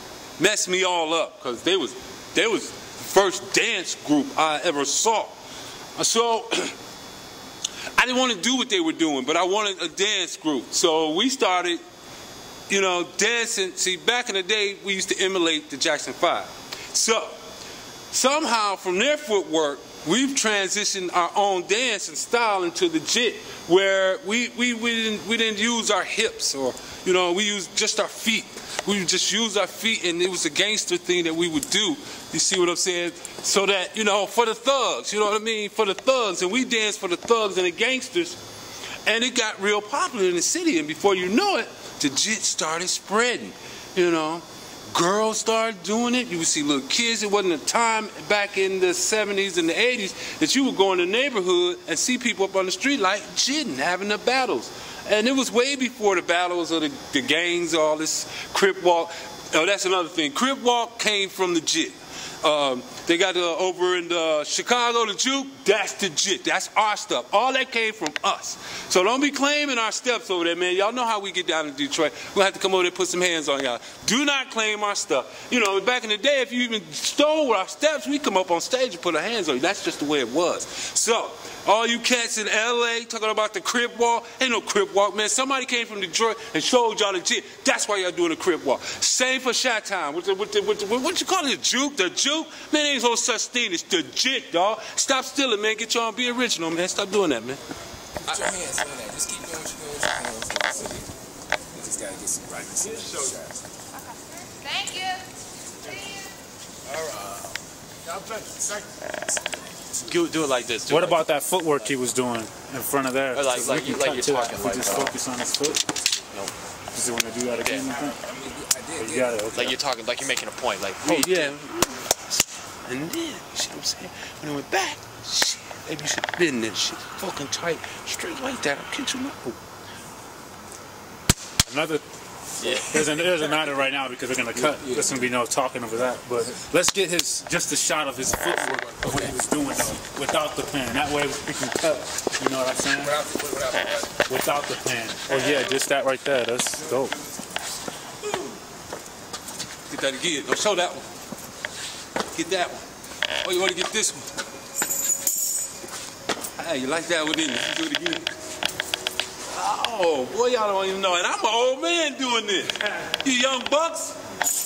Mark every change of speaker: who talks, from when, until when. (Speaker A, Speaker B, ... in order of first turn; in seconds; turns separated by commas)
Speaker A: 0.4-5.3, Speaker A: 6.0-6.8, Speaker A: 8.0-11.8, Speaker A: 12.7-17.4, Speaker A: 18.1-38.4, Speaker A: 39.0-97.6, Speaker B: 98.2-101.1, Speaker B: 101.7-103.7, Speaker C: 103.9-106.3, Speaker B: 108.0-110.4, Speaker D: 110.0-111.9, Speaker E: 110.9-116.0, Speaker D: 113.3-115.1, Speaker E: 116.9-118.2, Speaker D: 117.6-117.9, Speaker B: 117.9-119.7, Speaker E: 119.0-119.8, Speaker D: 119.5-121.5, Speaker A: 121.0-129.6, Speaker E: 131.7-132.0, Speaker D: 132.6-133.5, Speaker E: 132.6-143.2, Speaker B: 134.6-135.3, Speaker B: 143.0-144.1, Speaker E: 144.3-147.2, Speaker B: 146.8-147.2, Speaker A: 148.2-148.6, Speaker A: 149.9-151.1, Speaker A: 152.3-152.8, Speaker A: 153.4-154.3, Speaker A: 156.6-158.3, Speaker A: 159.5-164.2